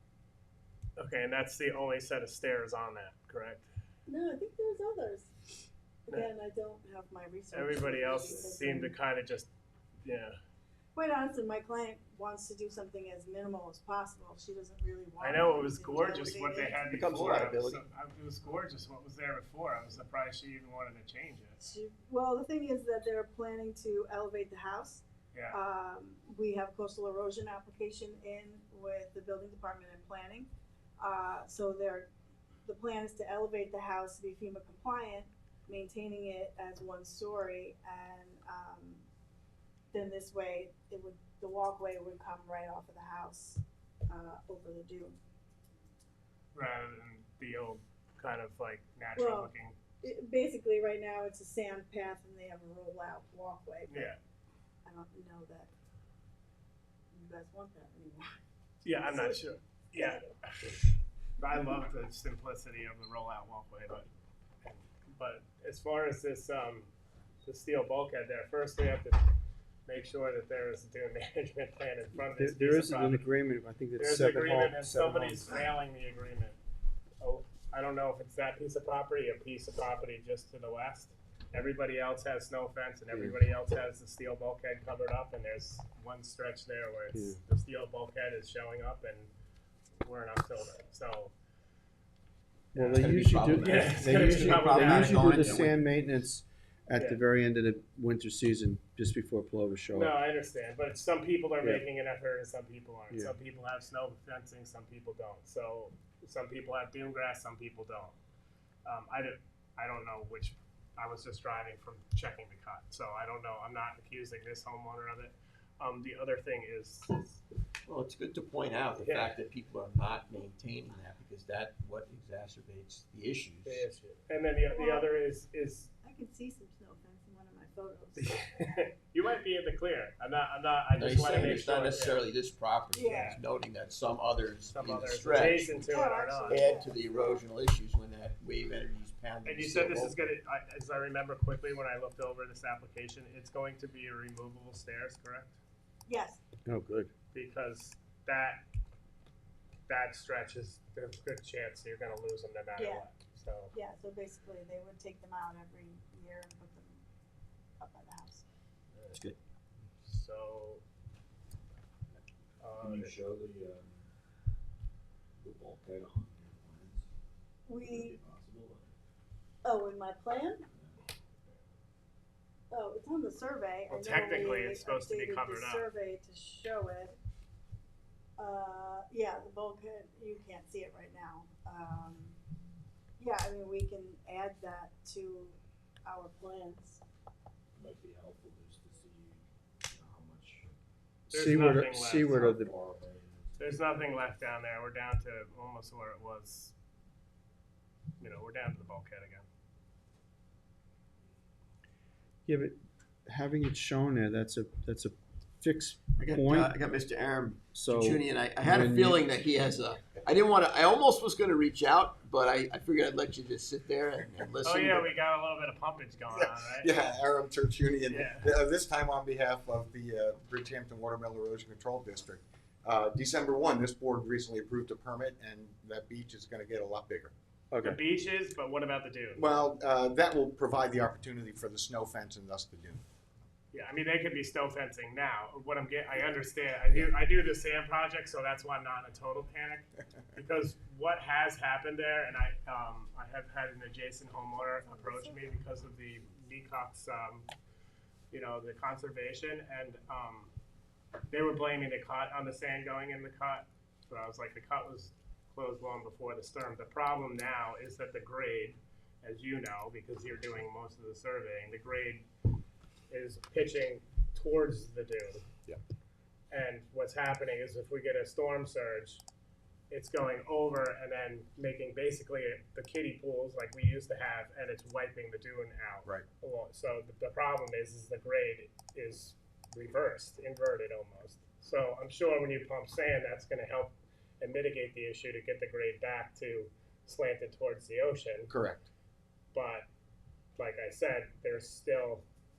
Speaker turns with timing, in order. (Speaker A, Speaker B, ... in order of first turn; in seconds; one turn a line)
Speaker A: 1.0-3.6
Speaker B: 4.1-5.5
Speaker B: 6.1-8.9
Speaker A: 7.5-9.5
Speaker A: 10.0-10.3
Speaker B: 10.9-16.8
Speaker A: 15.2-21.6
Speaker C: 16.9-17.8
Speaker B: 21.6-30.5
Speaker B: 31.0-32.1
Speaker B: 32.6-39.0
Speaker B: 39.9-45.2
Speaker A: 46.5-49.8
Speaker B: 49.1-54.1
Speaker A: 53.9-54.2
Speaker B: 54.8-55.7
Speaker B: 57.1-58.4
Speaker A: 58.8-60.8
Speaker B: 59.0-59.4
Speaker B: 59.9-60.3
Speaker A: 61.4-64.1
Speaker A: 64.6-66.9
Speaker A: 67.4-69.3
Speaker A: 69.9-73.3
Speaker D: 72.2-75.5
Speaker A: 74.0-76.6
Speaker A: 77.2-89.3
Speaker D: 87.1-87.4
Speaker A: 90.0-91.3
Speaker A: 92.7-95.7
Speaker D: 92.7-100.1
Speaker C: 92.9-95.7
Speaker A: 99.9-108.2
Speaker A: 108.8-117.4
Speaker C: 117.8-123.8
Speaker A: 119.0-119.3
Speaker A: 123.6-125.9
Speaker B: 124.7-125.1
Speaker B: 126.0-128.4
Speaker A: 128.2-132.2
Speaker C: 130.9-135.9
Speaker B: 132.9-133.4
Speaker A: 133.1-133.4
Speaker A: 134.7-136.7
Speaker B: 135.8-137.4
Speaker C: 136.5-140.2
Speaker A: 139.4-145.6
Speaker B: 146.1-146.4
Speaker D: 146.7-147.1
Speaker A: 147.3-148.6
Speaker A: 149.9-153.7
Speaker B: 152.8-153.1
Speaker B: 153.7-157.0
Speaker B: 157.8-158.4
Speaker C: 159.1-159.4
Speaker A: 160.0-160.8
Speaker A: 162.6-163.1
Speaker E: 162.8-164.1
Speaker E: 165.4-167.1
Speaker B: 167.7-168.2
Speaker E: 167.9-168.9
Speaker B: 169.6-170.6
Speaker B: 172.7-177.2
Speaker A: 173.9-175.9
Speaker B: 178.4-182.4
Speaker B: 183.2-187.0
Speaker E: 187.8-190.7
Speaker D: 191.3-192.7
Speaker A: 191.3-192.4
Speaker E: 191.9-193.6
Speaker A: 193.6-196.7
Speaker A: 198.2-199.4
Speaker D: 202.4-206.8
Speaker C: 206.2-215.1
Speaker D: 207.7-209.2
Speaker A: 214.6-217.1
Speaker F: 216.3-227.3
Speaker A: 218.1-218.5
Speaker D: 227.7-228.0
Speaker A: 227.8-229.5
Speaker F: 229.3-233.0
Speaker A: 233.7-247.5
Speaker B: 244.6-245.5
Speaker A: 248.3-250.5
Speaker A: 251.3-262.2
Speaker A: 263.1-265.4
Speaker A: 266.5-269.2
Speaker A: 269.9-288.5
Speaker F: 288.5-288.9
Speaker A: 289.5-289.9
Speaker A: 290.6-292.2